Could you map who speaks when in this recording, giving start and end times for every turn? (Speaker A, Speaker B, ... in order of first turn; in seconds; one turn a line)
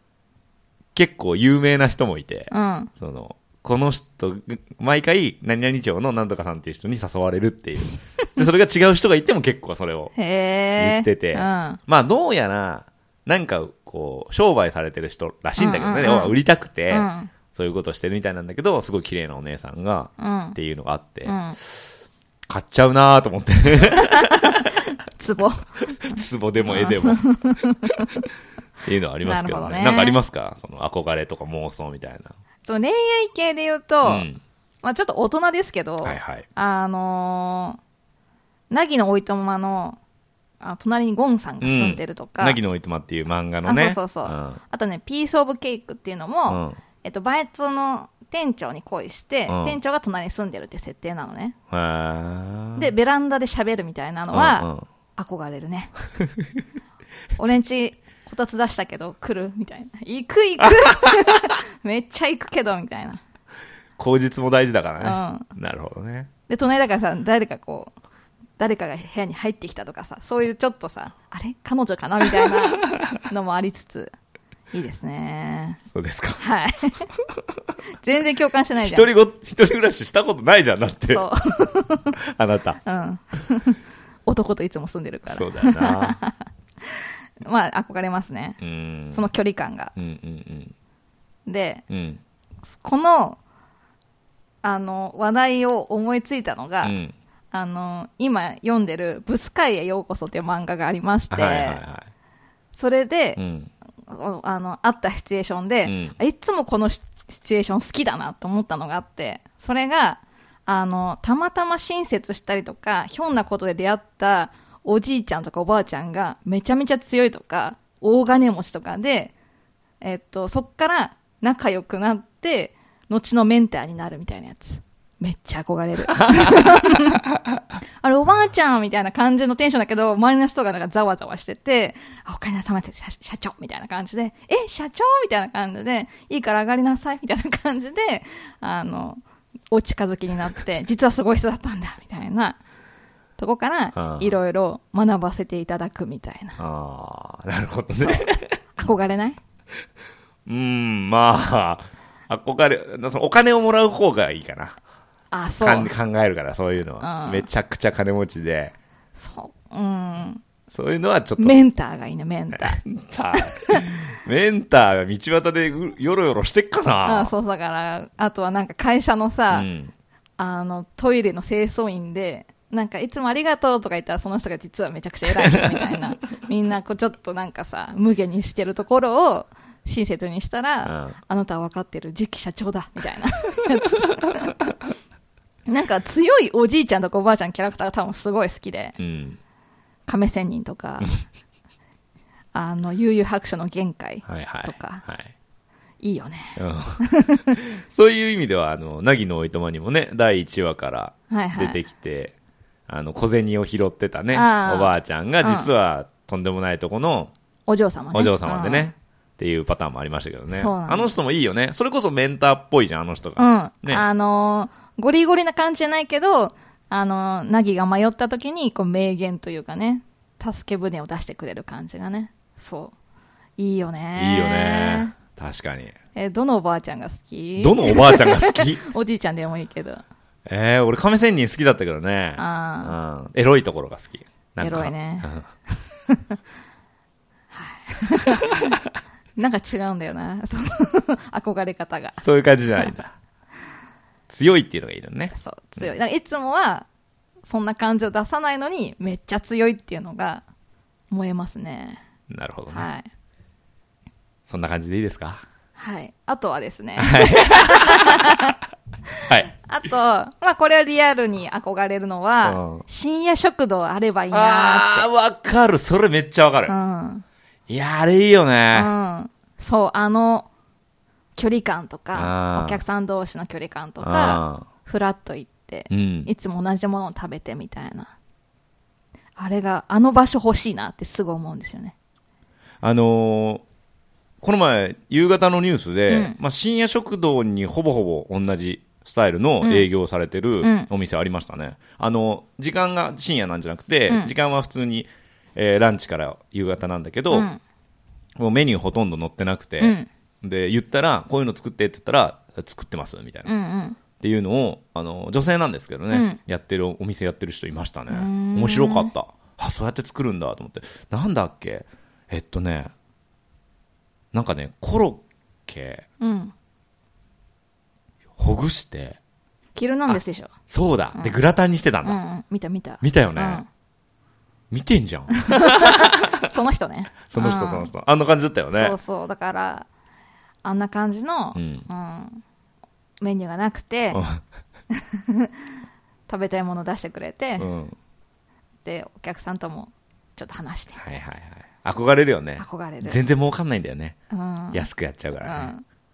Speaker A: 0.9-10.1
Speaker B: 2.5-2.9
Speaker B: 10.2-11.8
Speaker A: 10.8-21.9
Speaker B: 15.6-16.4
Speaker B: 16.9-17.3
Speaker B: 20.2-20.6
Speaker B: 21.2-21.6
Speaker A: 22.5-24.9
Speaker B: 23.9-28.2
Speaker A: 26.0-27.3
Speaker A: 27.8-28.2
Speaker A: 28.8-32.3
Speaker B: 29.2-30.2
Speaker B: 32.6-34.3
Speaker A: 34.0-34.4
Speaker B: 34.8-37.8
Speaker A: 36.0-36.5
Speaker B: 38.7-40.0
Speaker B: 40.6-42.6
Speaker A: 41.6-44.6
Speaker B: 43.6-51.6
Speaker A: 46.5-46.8
Speaker A: 49.5-49.8
Speaker A: 51.7-52.9
Speaker B: 52.8-55.9
Speaker A: 54.3-54.9
Speaker B: 57.4-63.2
Speaker A: 64.0-66.3
Speaker B: 65.0-65.5
Speaker B: 66.5-67.9
Speaker B: 68.6-74.1
Speaker B: 74.7-75.8
Speaker A: 75.9-76.4
Speaker B: 76.4-77.1
Speaker B: 78.0-79.1
Speaker A: 78.8-81.3
Speaker B: 81.1-82.2
Speaker A: 82.2-82.8
Speaker B: 82.8-88.6
Speaker A: 85.3-86.2
Speaker A: 88.6-89.2
Speaker B: 89.1-89.9
Speaker A: 90.0-90.7
Speaker B: 91.5-91.8
Speaker A: 91.9-92.2
Speaker B: 92.7-93.4
Speaker B: 94.6-97.0
Speaker A: 96.8-97.1
Speaker B: 97.5-101.8
Speaker A: 101.3-102.1
Speaker B: 102.7-103.4
Speaker A: 103.4-103.7
Speaker B: 104.1-119.3
Speaker A: 105.9-106.2
Speaker B: 120.0-127.2
Speaker A: 126.2-127.0
Speaker B: 128.0-139.2
Speaker B: 139.7-142.6
Speaker B: 143.4-146.6
Speaker A: 143.9-144.4
Speaker A: 146.6-148.6
Speaker B: 148.0-149.4
Speaker A: 150.5-154.8
Speaker B: 155.3-155.9
Speaker A: 155.6-158.7
Speaker B: 157.0-157.5
Speaker B: 159.2-160.4
Speaker A: 160.7-161.6
Speaker B: 161.4-162.8
Speaker A: 162.5-167.3
Speaker B: 163.3-163.8
Speaker B: 167.1-169.7
Speaker A: 169.5-169.9
Speaker B: 170.4-184.6
Speaker A: 175.4-175.8
Speaker A: 180.8-181.2
Speaker B: 185.7-189.0
Speaker A: 189.0-189.4
Speaker B: 190.1-191.1
Speaker B: 192.5-195.0
Speaker A: 194.3-195.3
Speaker B: 196.0-197.6
Speaker A: 196.6-202.3
Speaker B: 201.3-201.8
Speaker A: 202.9-207.3
Speaker B: 204.3-205.7
Speaker B: 207.7-208.9
Speaker A: 208.1-214.1
Speaker B: 210.5-211.1
Speaker B: 213.4-222.9
Speaker B: 223.6-225.1
Speaker A: 224.2-225.9
Speaker B: 226.2-230.0
Speaker A: 227.6-228.9
Speaker A: 230.5-235.5
Speaker B: 232.4-232.9
Speaker B: 234.6-235.3
Speaker B: 236.1-236.4
Speaker B: 237.5-238.7
Speaker B: 239.4-242.2
Speaker A: 242.2-243.2
Speaker A: 244.3-245.8
Speaker B: 245.3-246.9
Speaker B: 247.4-250.4
Speaker B: 251.1-252.0
Speaker A: 252.3-252.9
Speaker B: 252.7-253.1
Speaker A: 254.5-255.4
Speaker B: 255.8-258.6
Speaker A: 257.0-258.5
Speaker B: 259.1-265.1
Speaker A: 259.2-259.5
Speaker A: 262.4-262.8
Speaker A: 264.3-266.8
Speaker B: 266.7-267.2
Speaker A: 267.7-268.9
Speaker B: 268.7-270.5
Speaker B: 271.4-278.1
Speaker A: 272.1-272.8
Speaker A: 274.0-274.7
Speaker A: 275.9-276.3
Speaker B: 279.4-281.9
Speaker A: 282.8-283.6
Speaker A: 284.4-297.5
Speaker B: 286.1-286.4
Speaker B: 289.6-289.9
Speaker B: 290.6-290.9
Speaker B: 297.3-297.6
Speaker A: 298.4-303.5
Speaker B: 299.8-300.1
Speaker B: 303.5-304.0
Speaker A: 304.2-312.9
Speaker B: 306.1-306.4
Speaker B: 308.1-309.1
Speaker A: 314.3-316.1
Speaker B: 316.2-316.5
Speaker A: 318.4-319.2
Speaker B: 319.8-320.5
Speaker A: 320.1-322.2
Speaker B: 322.0-323.7
Speaker A: 323.0-323.6
Speaker A: 324.7-326.5
Speaker B: 325.5-327.9
Speaker A: 327.3-329.0
Speaker B: 328.7-329.9
Speaker B: 330.6-332.4
Speaker A: 331.6-331.9
Speaker B: 333.2-334.2
Speaker A: 334.1-334.4
Speaker B: 334.9-335.5
Speaker B: 336.3-337.7
Speaker A: 337.6-337.9
Speaker B: 338.8-341.1
Speaker A: 341.0-344.2
Speaker B: 342.6-343.2
Speaker B: 344.3-344.9
Speaker A: 344.7-345.7
Speaker B: 345.4-345.8